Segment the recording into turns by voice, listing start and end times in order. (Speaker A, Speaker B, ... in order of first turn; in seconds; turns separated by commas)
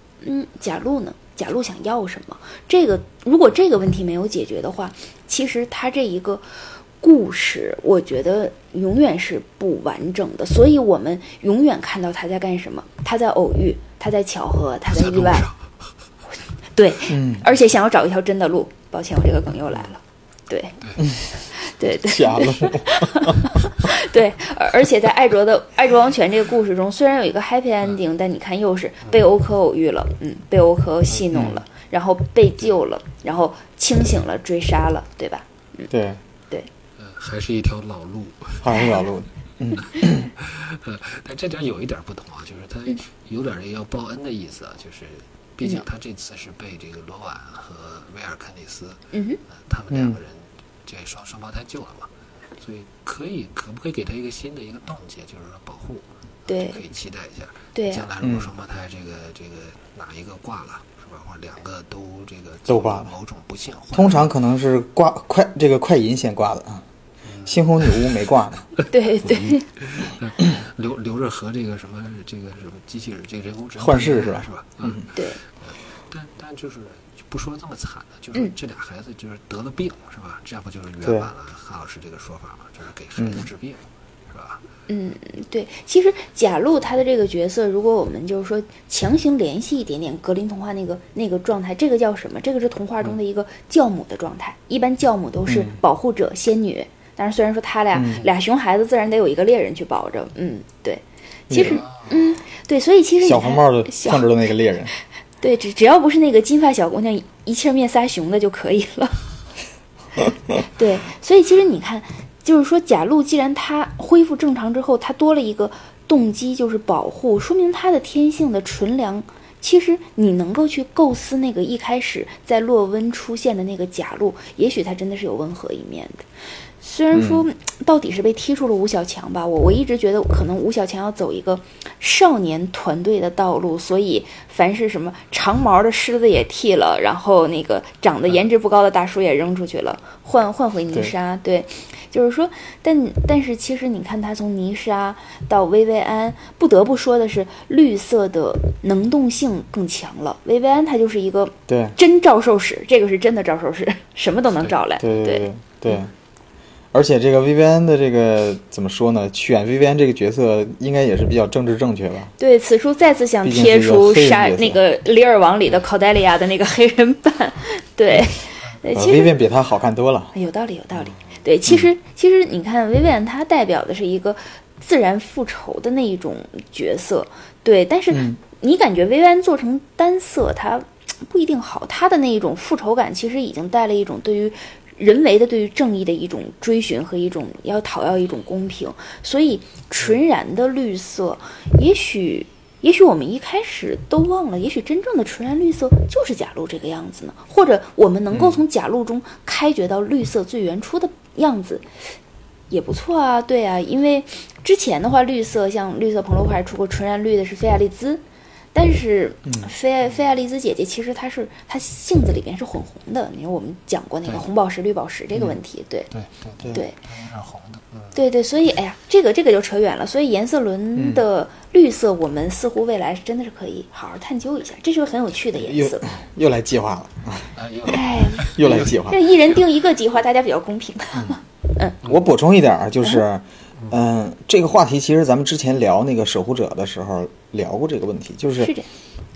Speaker A: 0.2-6.5, Speaker A: 7.0-15.5, Speaker B: 14.9-15.7, Speaker A: 16.7-20.8, Speaker C: 17.1-17.5, Speaker B: 20.8-21.1, Speaker A: 21.5-35.9, Speaker C: 22.0-23.4, Speaker C: 31.3-31.6, Speaker C: 35.9-36.2, Speaker B: 37.0-38.7, Speaker C: 38.6-40.3, Speaker A: 38.7-39.0, Speaker B: 39.8-64.3, Speaker A: 49.1-49.4, Speaker C: 49.9-50.2, Speaker A: 56.5-56.8, Speaker A: 57.8-58.1, Speaker C: 58.2-58.5, Speaker C: 62.7-63.1, Speaker C: 63.9-66.8, Speaker B: 67.2-68.2, Speaker C: 67.5-68.7, Speaker B: 68.8-84.7, Speaker A: 68.9-69.7, Speaker C: 73.8-75.0, Speaker A: 75.1-75.4, Speaker C: 81.0-81.3, Speaker C: 83.2-83.5, Speaker A: 84.9-104.3, Speaker C: 95.5-95.8, Speaker C: 97.9-98.2, Speaker C: 101.5-101.8, Speaker B: 101.6-102.3, Speaker C: 103.2-104.9, Speaker A: 105.4-109.2, Speaker A: 110.6-126.3, Speaker A: 126.8-156.0, Speaker C: 127.1-127.4, Speaker C: 151.7-152.0, Speaker C: 155.0-156.1, Speaker C: 156.9-162.3, Speaker A: 162.4-169.3, Speaker C: 163.4-164.8, Speaker C: 168.9-170.3, Speaker A: 170.3-201.9, Speaker B: 170.9-171.5, Speaker C: 178.1-178.4, Speaker C: 198.3-198.6, Speaker A: 202.7-208.2, Speaker A: 208.7-216.1, Speaker C: 209.5-209.7, Speaker B: 216.1-218.3, Speaker A: 218.1-226.1, Speaker C: 221.0-221.2, Speaker C: 225.6-227.5, Speaker B: 227.6-229.6, Speaker A: 227.9-232.0, Speaker C: 228.6-229.2, Speaker C: 232.0-238.7, Speaker A: 238.6-238.9